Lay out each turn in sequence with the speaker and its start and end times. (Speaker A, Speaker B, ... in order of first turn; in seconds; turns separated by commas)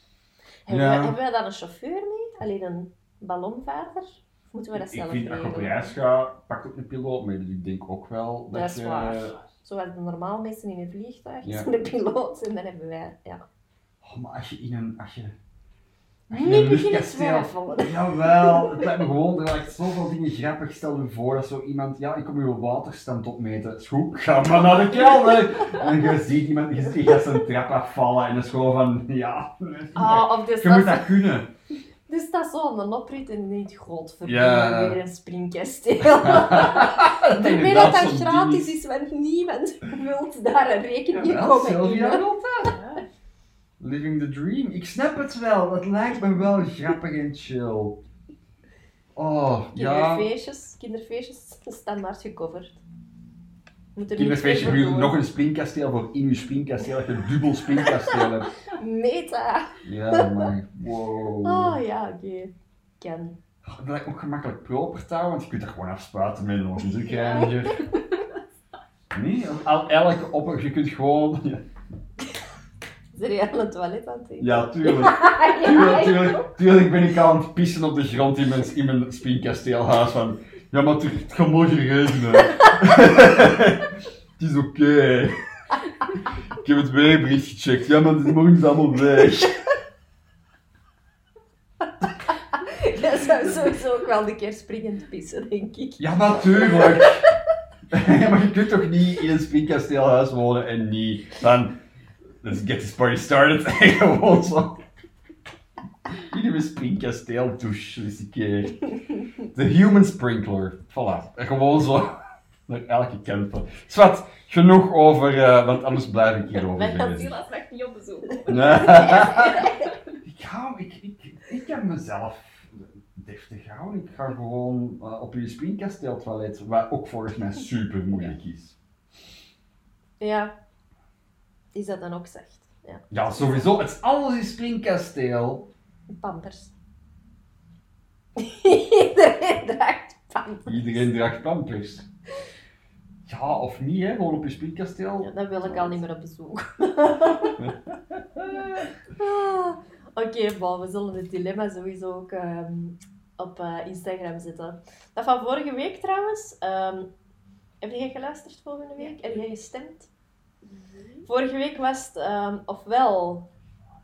Speaker A: 0.7-5.9, Speaker B: 0.7-1.2, Speaker B: 4.7-9.3, Speaker A: 8.5-13.4, Speaker B: 11.4-11.7, Speaker B: 14.0-15.3, Speaker A: 16.3-18.9, Speaker B: 16.3-31.5, Speaker A: 25.0-25.9, Speaker A: 29.9-31.2, Speaker A: 32.1-42.3, Speaker B: 34.2-35.0, Speaker B: 36.2-38.8, Speaker B: 41.1-42.8, Speaker C: 42.6-43.0, Speaker B: 43.8-48.0, Speaker B: 49.1-50.3, Speaker A: 49.7-52.8, Speaker A: 54.0-55.2, Speaker B: 54.1-58.5, Speaker A: 57.8-58.1, Speaker A: 58.7-60.5, Speaker B: 59.8-61.8, Speaker A: 61.4-63.4, Speaker B: 63.6-67.8, Speaker A: 67.0-67.9, Speaker B: 69.1-71.6, Speaker A: 73.1-76.5, Speaker B: 74.4-85.4, Speaker B: 86.5-89.6, Speaker A: 92.3-97.1, Speaker B: 96.0-97.3, Speaker B: 97.9-101.8, Speaker B: 102.4-104.8, Speaker B: 106.2-117.3, Speaker A: 116.7-117.3, Speaker C: 117.0-119.8, Speaker B: 118.5-119.7, Speaker A: 118.6-119.9, Speaker B: 120.2-128.8, Speaker A: 130.2-130.5, Speaker A: 131.7-133.7, Speaker B: 133.1-135.7, Speaker A: 136.1-136.7, Speaker A: 138.3-141.0, Speaker B: 140.7-142.1, Speaker B: 143.2-146.0, Speaker A: 145.2-147.7, Speaker B: 147.6-148.9, Speaker A: 149.1-157.1, Speaker A: 157.8-160.1, Speaker C: 159.0-159.3, Speaker C: 160.6-161.2, Speaker A: 161.2-163.4